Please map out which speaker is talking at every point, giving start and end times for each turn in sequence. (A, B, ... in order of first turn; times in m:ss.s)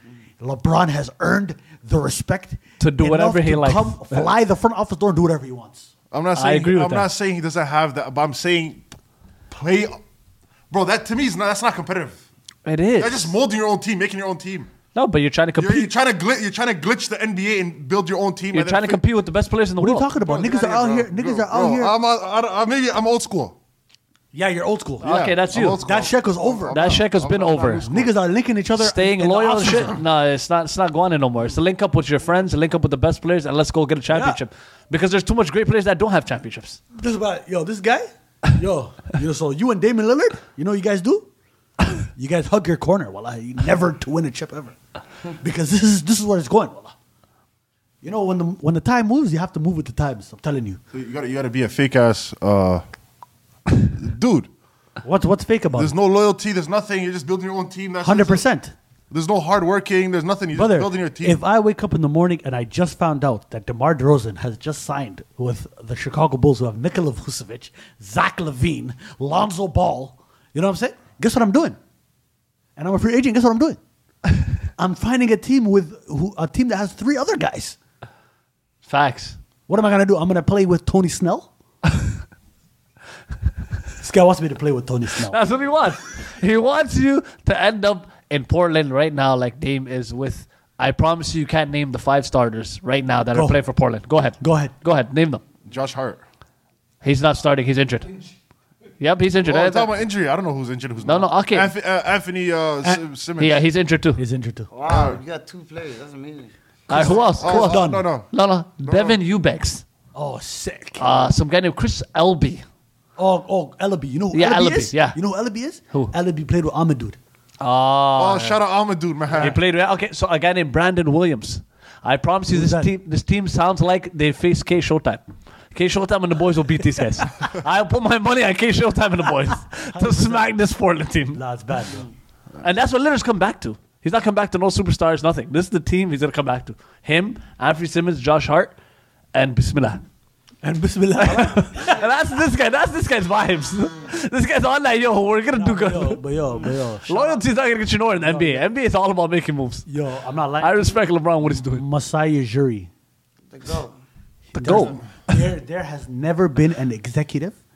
0:00.4-0:05.9 A
0:02.8-0:04.3 B
0:06.1-0:08.9 C
0:06.4-0:07.1 B
0:09.5-0:10.0 C
0:10.7-0:12.2 C
0:12.6-0:13.3 B
0:13.0-0:14.7 C
0:15.0-0:15.9 B
0:15.6-0:19.0 C
0:18.5-0:20.1 B
0:19.8-0:21.9 A
0:20.2-0:23.6 C
0:24.3-0:25.1 A
0:25.0-0:25.8 B
0:25.0-0:28.1 C
0:25.8-0:27.0 A
0:26.7-0:27.8 B
0:27.8-0:30.0 A
0:28.8-0:36.8 B
0:34.1-0:34.4 A
0:37.0-0:41.3 A
0:42.0-0:44.8 A
0:45.4-0:46.9 A
0:48.0-0:50.8 A
0:50.9-0:52.8 C
0:53.8-0:54.5 C
0:55.0-0:55.9 A
0:55.8-0:58.4 C
0:58.0-0:58.7 A
0:59.1-1:01.4 C
1:00.5-1:11.8 A
1:12.8-1:13.8 A
1:14.8-1:17.8 A
1:18.9-1:19.4 B
1:19.7-1:21.5 A
1:24.0-1:25.4 A
1:25.3-1:35.4 B
1:33.3-1:33.6 A
1:34.4-1:34.7 A
1:35.7-1:36.2 C
1:37.0-1:38.1 B
1:39.0-1:39.9 B
1:39.4-1:43.6 C
1:41.0-1:41.7 B
1:43.4-1:44.2 B
1:44.2-1:44.7 A
1:44.7-1:46.5 D
1:44.8-1:45.2 C
1:46.9-1:48.3 C
1:46.9-1:49.8 B
1:46.9-1:48.1 A
1:48.8-1:49.2 C
1:50.2-1:51.3 A
1:51.0-1:52.6 B
1:53.2-1:57.2 A
1:54.3-1:55.2 B
1:57.6-1:58.6 B
1:58.2-1:59.6 C
1:59.4-2:11.4 B
2:02.5-2:02.9 A
2:09.9-2:10.5 A
2:11.3-2:12.1 A
2:12.6-2:18.8 B
2:19.3-2:20.0 B
2:20.6-2:22.1 A
2:21.2-2:26.2 B
2:25.5-2:27.4 A
2:27.1-2:29.9 B
2:28.2-2:28.7 A
2:29.9-2:30.8 A
2:30.6-2:31.8 B
2:31.5-2:32.9 A
2:33.5-2:34.0 D
2:34.5-2:37.6 A
2:34.6-2:35.4 B